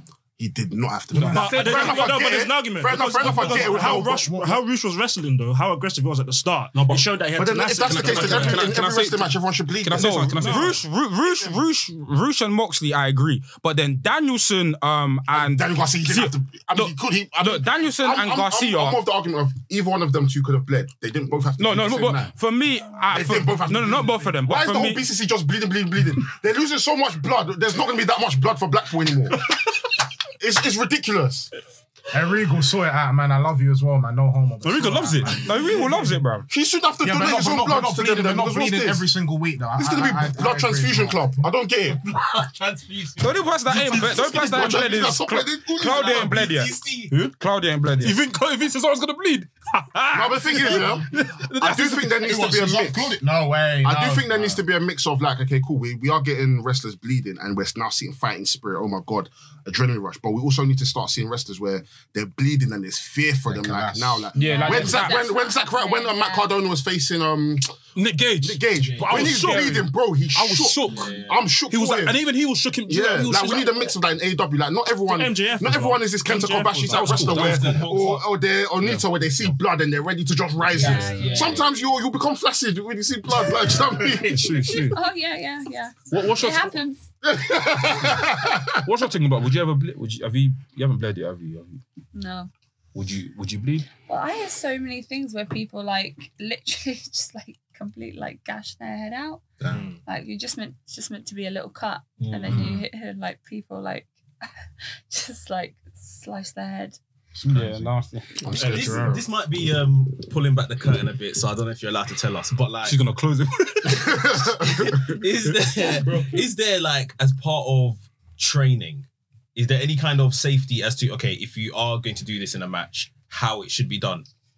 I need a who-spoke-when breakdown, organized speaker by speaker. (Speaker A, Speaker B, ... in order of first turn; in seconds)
Speaker A: 0.4-4.3, 7.4-10.7, 15.3-22.3, 23.1-29.5, 30.4-31.5, 36.5-39.1, 39.8-42.1, 43.8-46.5, 50.1-53.1, 53.8-67.7, 68.4-72.2, 72.9-84.7, 87.2-88.9, 108.5-109.1, 113.9-115.1
Speaker B: 1.1-1.6, 3.9-4.6, 32.1-35.9, 37.0-41.2, 52.2-54.6, 63.5-64.3, 99.6-99.8, 102.5-102.8, 107.4-108.0, 108.6-109.2
Speaker C: 1.2-8.8, 75.1-77.4, 84.5-84.8, 108.8-109.2
Speaker D: 1.2-2.1, 6.7-7.1, 7.8-10.8, 34.6-35.5, 48.0-52.4, 68.0-74.0, 76.7-77.9, 86.1-86.8, 88.8-91.8, 92.9-93.9, 108.7-109.0, 112.8-114.3, 115.5-116.3
Speaker E: 10.0-19.0, 21.6-25.0, 35.4-36.5, 43.2-48.2, 64.3-65.2, 69.3-69.8, 107.5-108.5
Speaker F: 42.0-43.5, 45.8-47.1, 68.7-69.5, 70.8-71.4, 77.2-78.3, 80.6-81.8, 102.2-102.8, 108.5-113.0, 114.6-124.3
Speaker G: 64.4-66.5, 80.8-81.7, 84.7-87.1, 92.1-92.5, 94.0-99.4, 100.1-104.5, 105.1-107.0